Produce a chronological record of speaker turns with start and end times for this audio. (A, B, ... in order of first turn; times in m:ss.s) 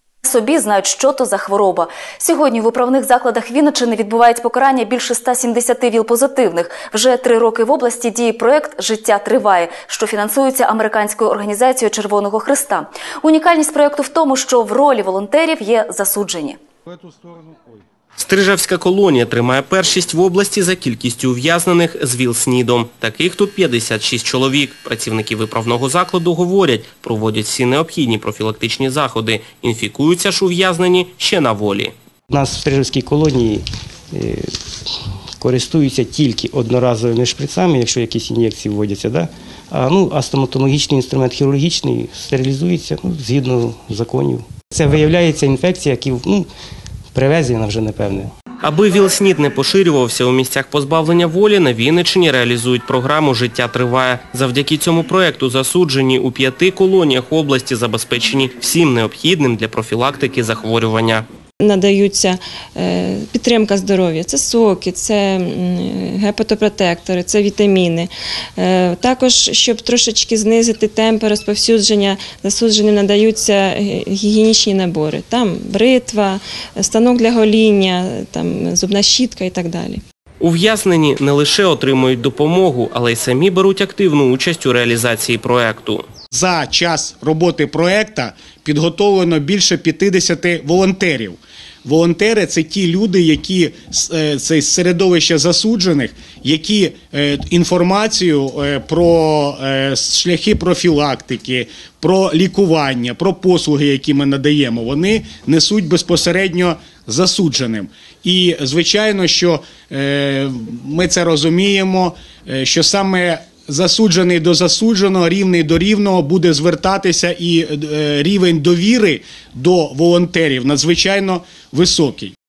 0:00.2-0:16.6 A
0:18.2-0:31.9 B
0:32.3-0:34.6 C
0:35.4-0:46.5 C
0:47.1-0:48.3 C
0:48.6-1:01.3 B
1:01.6-1:20.0 D
1:20.4-1:26.0 B
1:26.3-2:02.3 E